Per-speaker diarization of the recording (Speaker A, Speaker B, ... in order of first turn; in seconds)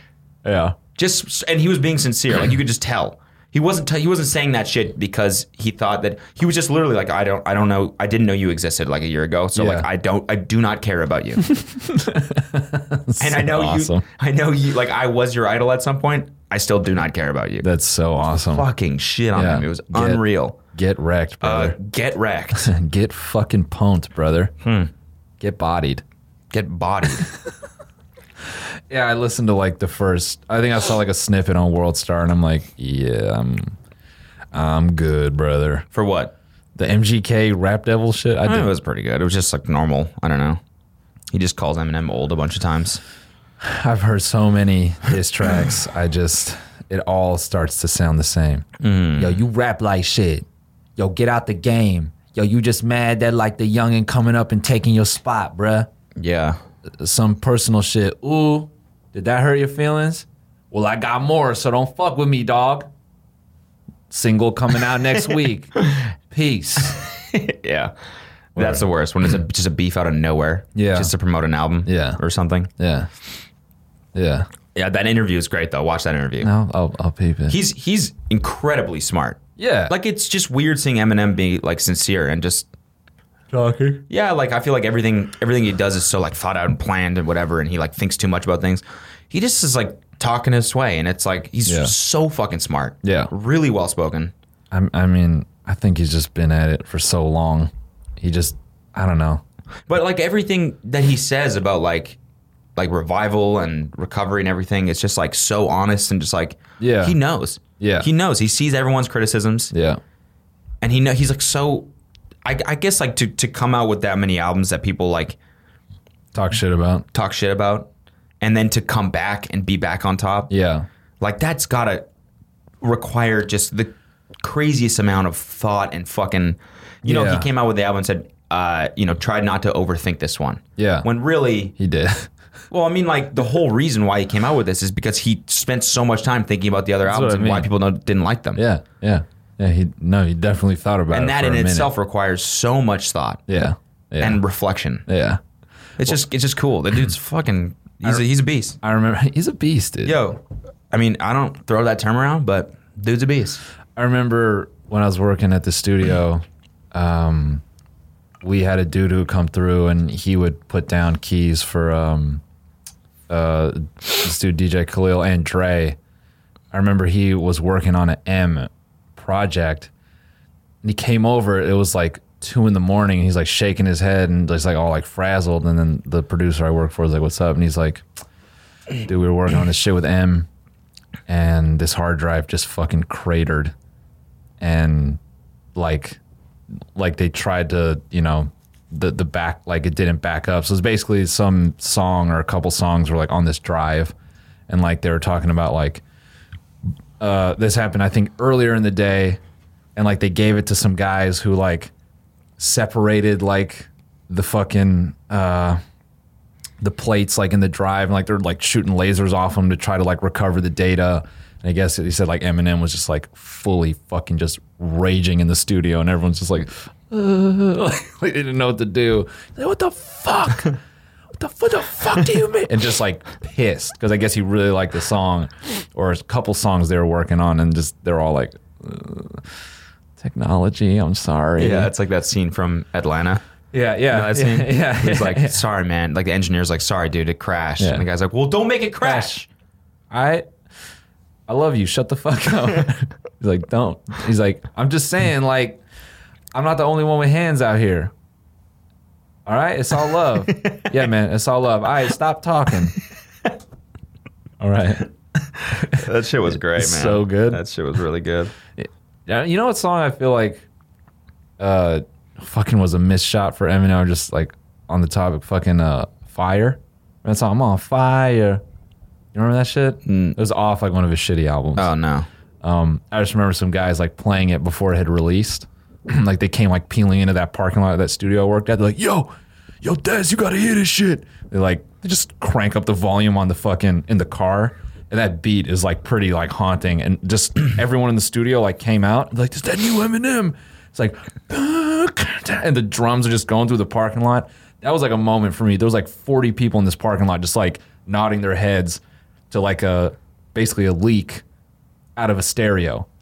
Speaker A: 0.4-0.8, 9.6-9.9, 11.4-14.0, 17.6-18.7, 19.3-21.8, 22.6-24.5, 25.4-26.0, 28.9-33.8, 34.5-35.9, 36.8-38.7, 43.6-48.7, 49.2-50.5, 51.0-55.9, 57.0-62.9, 64.1-65.8, 66.3-67.0, 68.6-68.9, 70.8-71.1, 71.9-72.2, 72.8-73.1, 74.2-74.5, 76.4-77.6, 79.6-79.9, 83.5-84.0, 91.7-91.9, 93.0-93.3, 94.7-99.4, 106.8-107.2, 107.8-108.1, 109.7-110.0, 116.3-117.1, 120.5-120.9, 127.0-127.5, 130.8-131.1, 131.8-132.3, 137.1-137.7, 138.6-141.9, 143.5-144.4, 145.1-145.4, 148.8-150.2, 154.0-156.4, 156.9-157.6, 158.4-162.4, 163.3-166.0, 166.7-169.9, 170.8-178.1, 179.0-180.5, 181.3-183.7, 184.6-185.2, 185.8-186.2, 186.9-194.2, 194.7-196.0, 197.2-199.4, 200.0-201.9, 202.6-205.8, 206.8-220.8, 221.4-229.6, 230.2-231.9, 233.7-235.6, 237.8-238.1, 239.0-239.4, 240.1-240.5, 241.5-245.8, 246.5-248.1, 249.5-253.0, 254.6-255.1, 255.7-256.1, 256.8-257.6, 258.8-260.7, 261.6-268.6, 269.3-271.9, 272.6-279.3, 279.8-301.4, 302.2-303.1
Speaker B: 0.9-11.5, 13.2-17.7, 18.5-20.6, 21.4-22.7, 24.6-24.9, 26.5-27.3, 35.9-36.3, 38.5-40.6, 41.3-43.0, 48.8-49.4, 56.2-56.6, 67.0-67.9, 68.5-72.7, 74.8-76.5, 77.5-82.7, 84.1-94.3, 99.9-102.2, 102.8-109.7, 110.8-111.9, 112.5-115.4, 117.1-117.9, 118.4-120.5, 121.2-122.1, 122.8-131.7, 132.7-138.6, 141.1-143.4, 144.2-145.1, 146.0-148.8, 150.1-153.6, 231.6-233.4, 234.1-239.5, 250.5-250.9, 255.6-258.6, 270.1-270.4, 271.8-272.3